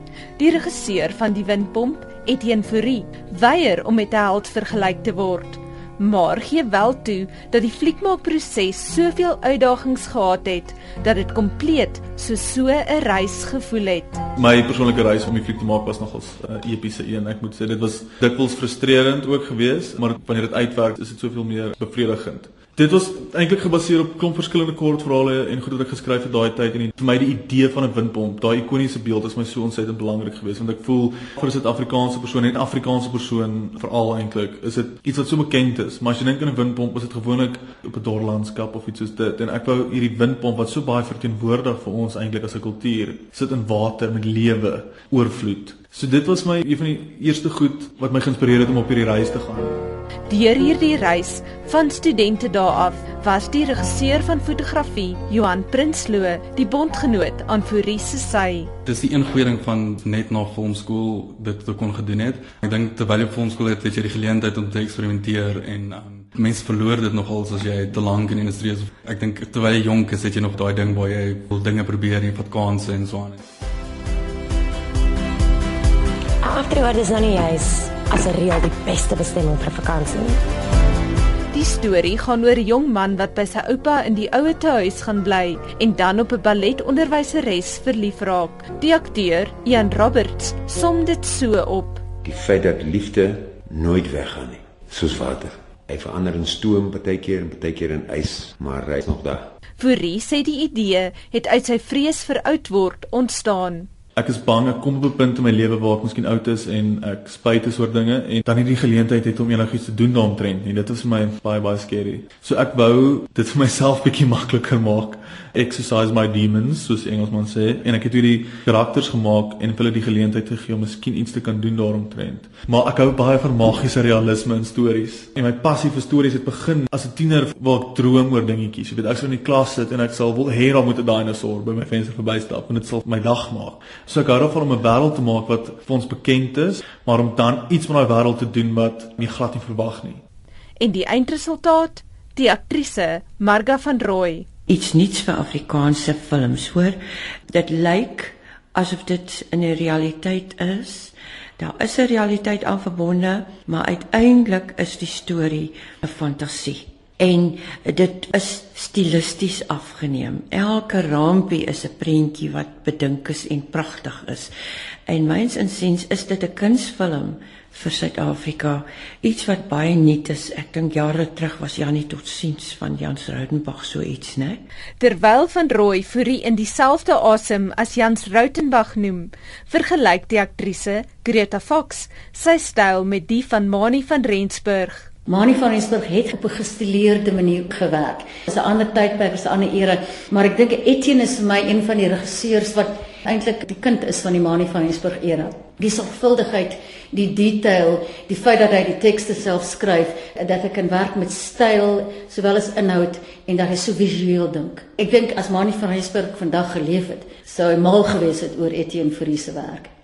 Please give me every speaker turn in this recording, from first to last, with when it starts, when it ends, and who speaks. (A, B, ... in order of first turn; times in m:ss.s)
0:00.4-0:14.2 A
0:14.4-0:49.8 B
0:50.3-0:58.7 A
0:58.8-1:13.4 C
1:16.4-1:20.4 D
1:21.5-1:32.0 A
1:32.2-1:39.4 E
1:39.8-1:43.9 A
1:44.2-2:20.2 B
2:20.8-2:24.5 A
2:24.7-2:27.0 F
2:27.5-2:44.5 F
2:45.0-2:54.6 F
2:55.0-3:05.1 A
3:05.3-3:29.9 G